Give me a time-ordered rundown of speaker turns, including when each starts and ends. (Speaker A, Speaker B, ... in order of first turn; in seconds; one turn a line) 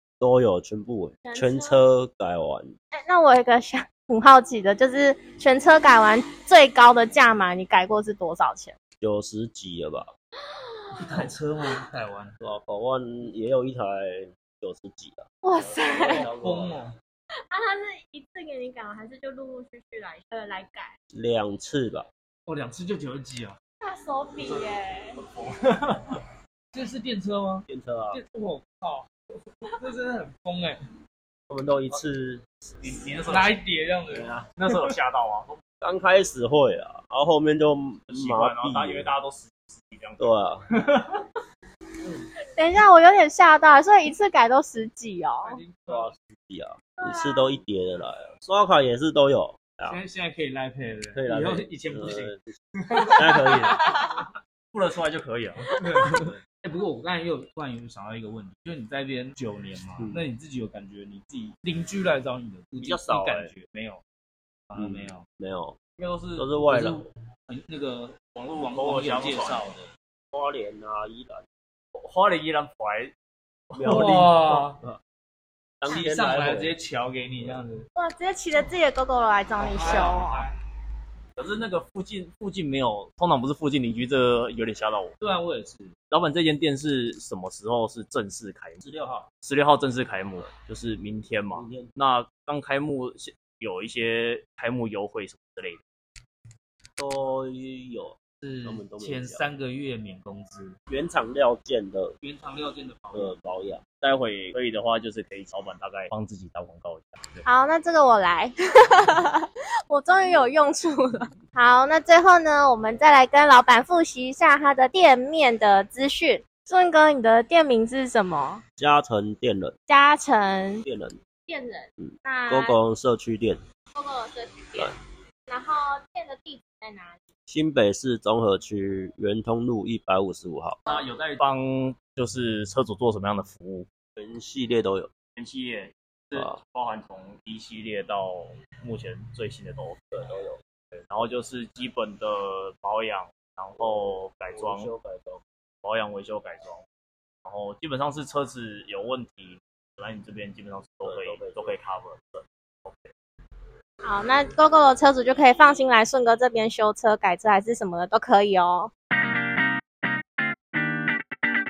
Speaker A: 0.2-2.7
Speaker B: 1.2-1.8
Speaker B: 3.0-8.8
Speaker A: 9.0-10.1
Speaker B: 10.7-11.2
Speaker C: 11.0-12.4
Speaker A: 12.4-16.8
Speaker B: 15.4-16.3
Speaker C: 16.1-17.0
Speaker B: 17.5-20.9
Speaker A: 21.1-22.1
Speaker C: 22.5-23.6
Speaker B: 23.8-25.2
Speaker D: 25.3-26.0
Speaker C: 26.7-30.8
Speaker A: 27.7-28.2
Speaker A: 31.5-32.6
Speaker D: 32.8-33.6
Speaker C: 33.3-34.7
Speaker A: 34.1-34.5
Speaker D: 34.5-35.5
Speaker A: 35.8-39.1
Speaker D: 38.1-41.2
Speaker A: 40.2-40.6
Speaker B: 42.5-45.6
Speaker C: 45.5-46.1
Speaker A: 45.9-50.0
Speaker B: 47.0-47.6
Speaker C: 49.9-52.3
Speaker A: 51.1-52.6
Speaker D: 53.0-53.8
Speaker A: 53.2-53.8
Speaker D: 54.7-55.7
Speaker C: 55.8-64.0
Speaker A: 60.0-60.2
Speaker A: 62.8-63.5
Speaker C: 64.7-65.2
Speaker A: 64.8-65.8
Speaker D: 66.0-66.5
Speaker A: 66.4-67.0
Speaker C: 66.6-69.9
Speaker D: 68.4-69.7
Speaker A: 70.3-71.4
Speaker D: 72.0-73.1
Speaker D: 73.7-74.1
Speaker A: 73.7-75.0
Speaker C: 73.9-74.8
Speaker A: 75.8-76.7
Speaker C: 75.9-77.9
Speaker B: 78.0-80.5
Speaker C: 79.6-80.5
Speaker D: 79.9-80.2
Speaker D: 81.4-85.2
Speaker C: 85.2-86.0
Speaker D: 86.1-88.8
Speaker A: 88.8-89.3
Speaker D: 89.4-95.8
Speaker A: 91.5-91.9
Speaker A: 97.0-99.5
Speaker C: 98.4-100.8
Speaker A: 100.9-102.2
Speaker C: 102.2-103.4
Speaker A: 103.1-103.8
Speaker D: 104.0-107.4
Speaker B: 107.5-118.6
Speaker A: 118.8-119.8
Speaker B: 119.9-120.8
Speaker A: 120.8-121.2
Speaker B: 121.5-122.8
Speaker A: 122.0-123.6
Speaker B: 123.9-124.9
Speaker B: 125.5-127.2
Speaker A: 127.5-130.8
Speaker D: 130.9-133.9
Speaker A: 134.2-135.1
Speaker D: 135.4-140.0
Speaker A: 140.1-140.6
Speaker D: 141.1-144.9
Speaker A: 144.6-145.4
Speaker D: 145.8-146.8
Speaker D: 147.4-153.1
Speaker A: 151.0-151.8
Speaker B: 154.0-158.9